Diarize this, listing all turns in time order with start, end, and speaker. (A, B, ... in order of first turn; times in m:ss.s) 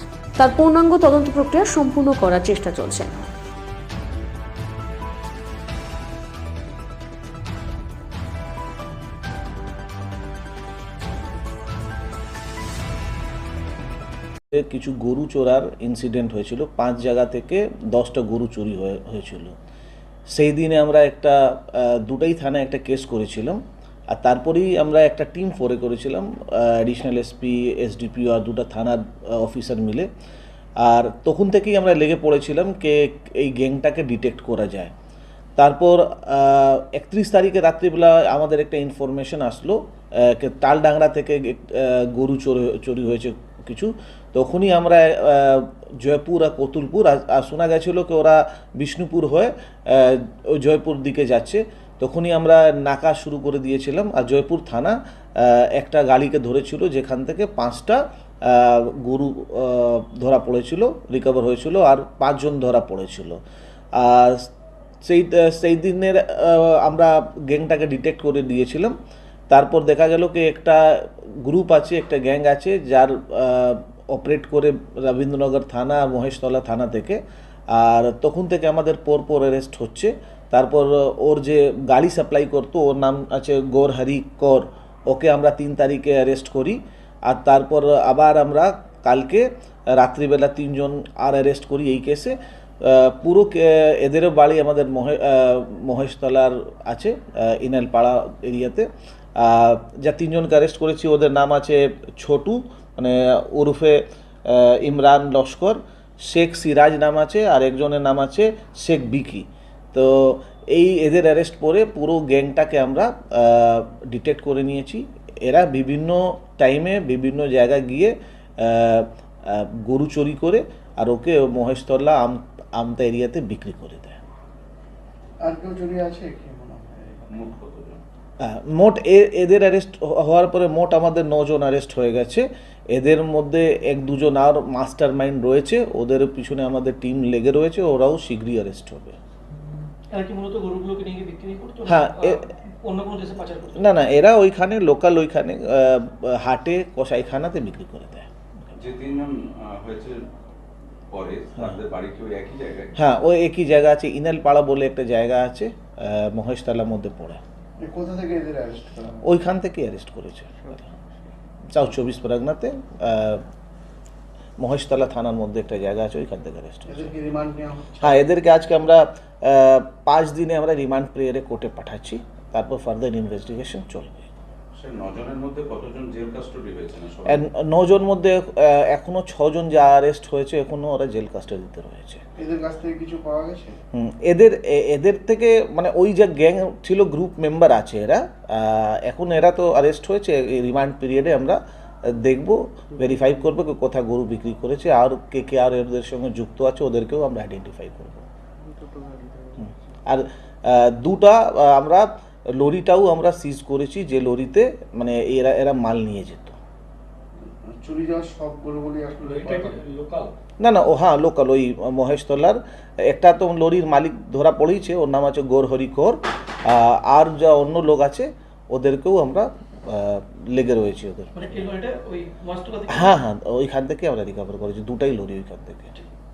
0:00.4-0:03.1 A
0:14.5-0:19.6 B
0:20.3-0:30.1 B
0:30.8-0:34.9 B
0:35.6-1:03.4 B
1:04.0-1:04.5 B
1:05.0-1:09.0 B
1:09.5-2:04.2 B
2:05.4-2:07.3 C
2:07.3-2:08.0 D
2:08.4-2:19.2 B
2:20.1-2:24.0 E
2:21.9-2:22.4 B
2:23.8-2:28.3 B
2:28.8-2:30.2 D
2:31.1-2:33.0 D
2:33.0-2:37.4 B
2:37.8-2:39.2 C
2:39.2-2:40.9 B
2:41.7-2:43.4 B
2:44.6-2:47.1 B
2:46.9-2:48.2 C
2:48.0-2:54.3 B
2:54.7-2:57.4 D
2:57.3-3:02.2 B
3:02.4-3:03.8 C
3:03.9-3:18.3 B
3:18.8-3:19.5 C
3:20.1-3:26.6 B
3:27.4-3:29.8 C
3:29.2-3:30.3 E
3:30.6-3:41.3 B
3:41.4-3:43.2 E
3:42.9-3:45.9 B